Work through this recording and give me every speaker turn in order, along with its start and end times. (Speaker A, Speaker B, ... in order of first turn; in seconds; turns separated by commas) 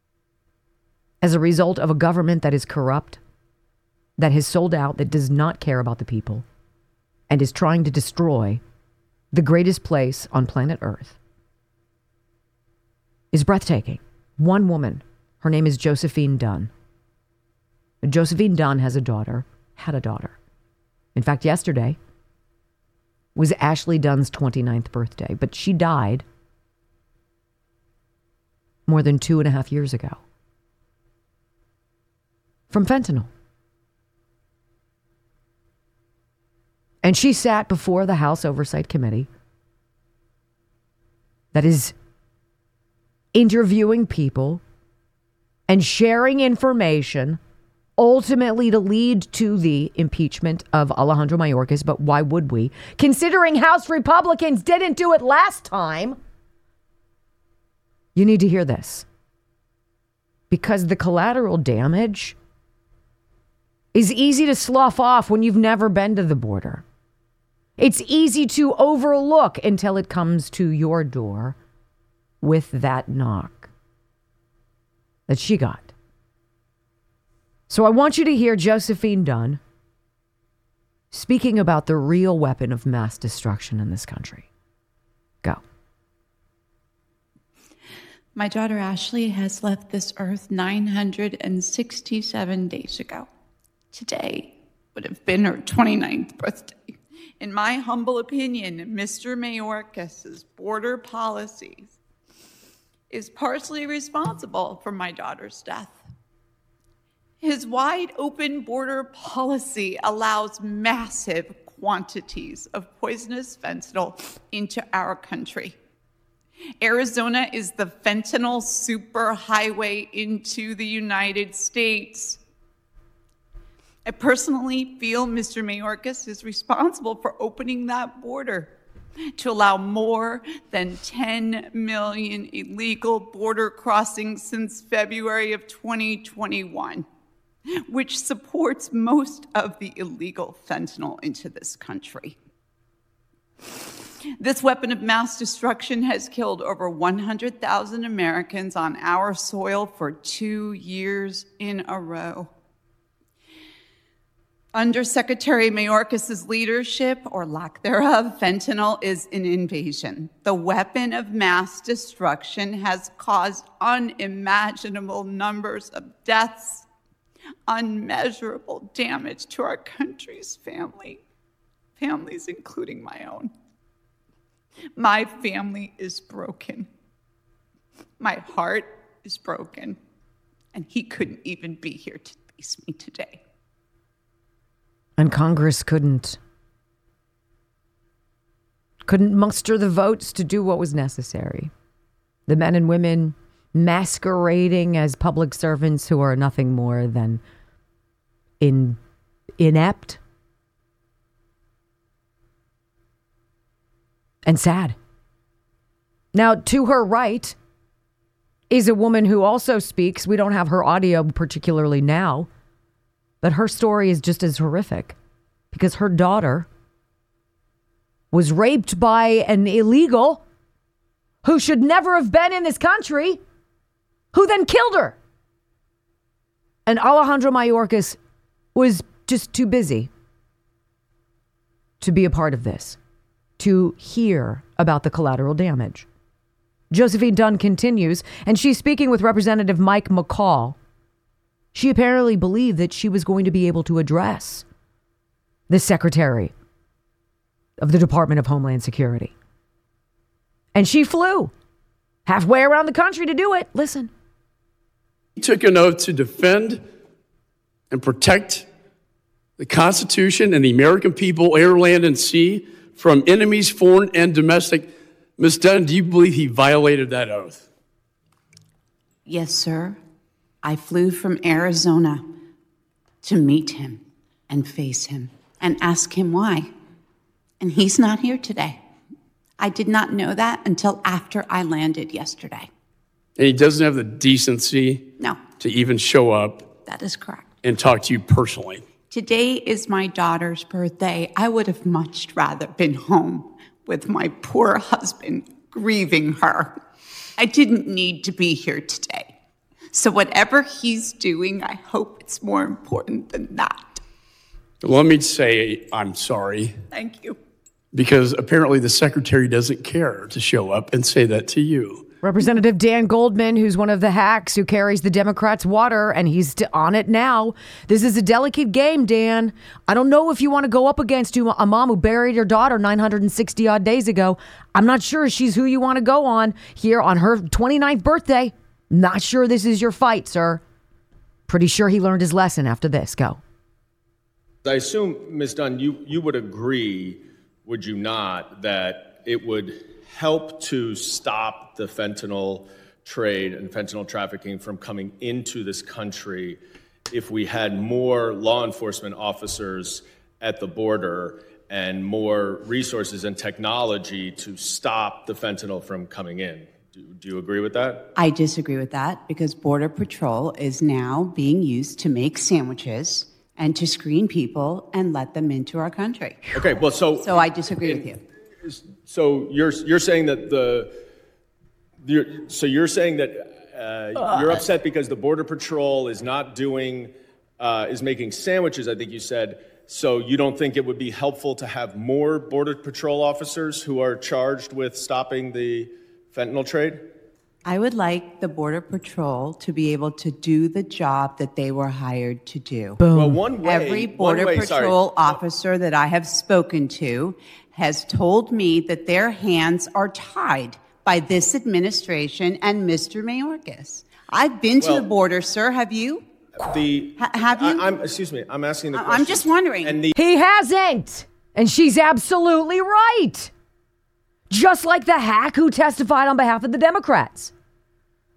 Speaker A: 1.2-3.2, Speaker A: 4.2-6.5, Speaker A: 7.3-8.6, Speaker A: 9.3-11.2, Speaker A: 13.3-16.7, Speaker A: 18.0-20.4, Speaker A: 21.1-22.0, Speaker A: 23.4-26.2, Speaker A: 28.9-30.2, Speaker A: 32.7-33.3, Speaker A: 37.0-39.3, Speaker A: 41.5-41.9, Speaker A: 43.3-44.6, Speaker A: 45.7-47.4, Speaker A: 48.0-56.2, Speaker A: 58.1-59.0, Speaker A: 60.5-62.4, Speaker A: 63.9-66.8, Speaker A: 67.8-71.6, Speaker A: 72.4-73.7, Speaker A: 75.3-75.9, Speaker A: 77.7-79.6, Speaker A: 81.1-84.5, Speaker B: 88.4-93.3, Speaker B: 93.9-102.0, Speaker B: 103.1-106.0, Speaker B: 107.4-115.8, Speaker B: 116.8-122.4, Speaker B: 124.1-128.7, Speaker B: 129.3-137.1, Speaker B: 137.8-142.4, Speaker B: 144.4-152.5, Speaker B: 154.7-166.9, Speaker B: 167.7-171.2, Speaker B: 172.0-173.5, Speaker B: 175.0-176.9, Speaker B: 178.2-180.0, Speaker B: 180.7-183.4, Speaker A: 185.2-186.4, Speaker A: 189.1-191.7, Speaker A: 192.5-197.4, Speaker A: 198.6-199.0, Speaker A: 199.6-200.2, Speaker A: 204.4-205.0, Speaker A: 206.3-207.6, Speaker A: 208.7-212.5, Speaker A: 213.4-215.2, Speaker A: 215.7-216.7, Speaker A: 218.3-220.4, Speaker A: 221.4-223.4, Speaker A: 224.3-225.2, Speaker A: 226.9-228.2, Speaker A: 228.8-230.1, Speaker A: 232.0-233.0, Speaker A: 233.6-236.1, Speaker A: 236.9-240.8, Speaker A: 241.7-244.6, Speaker A: 245.7-246.5, Speaker A: 247.8-249.3, Speaker A: 250.8-251.5, Speaker A: 252.3-254.1, Speaker C: 255.4-256.9, Speaker C: 257.9-258.7, Speaker C: 259.6-267.6, Speaker B: 269.3-270.0, Speaker B: 270.6-272.3, Speaker B: 273.2-276.7, Speaker B: 277.6-278.8, Speaker B: 279.6-282.7, Speaker C: 283.4-286.7, Speaker B: 285.2-285.5, Speaker B: 286.9-287.5, Speaker C: 287.6-288.8, Speaker B: 289.1-296.8, Speaker B: 297.4-299.3, Speaker B: 299.9-304.0, Speaker C: 304.8-306.8, Speaker B: 306.9-307.4, Speaker C: 307.9-312.1, Speaker A: 312.2-330.6, Speaker A: 331.5-333.4, Speaker D: 334.6-346.6, Speaker D: 347.1-358.1, Speaker B: 358.2-366.5, Speaker D: 366.5-368.1, Speaker B: 367.2-368.2, Speaker D: 368.6-370.9, Speaker D: 372.0-387.1, Speaker B: 387.6-393.0, Speaker A: 393.0-393.4, Speaker D: 393.1-395.4, Speaker B: 393.6-406.2, Speaker D: 404.8-405.1, Speaker D: 406.6-410.1, Speaker B: 407.2-408.0, Speaker B: 408.9-410.0, Speaker A: 410.1-413.5, Speaker A: 414.5-417.5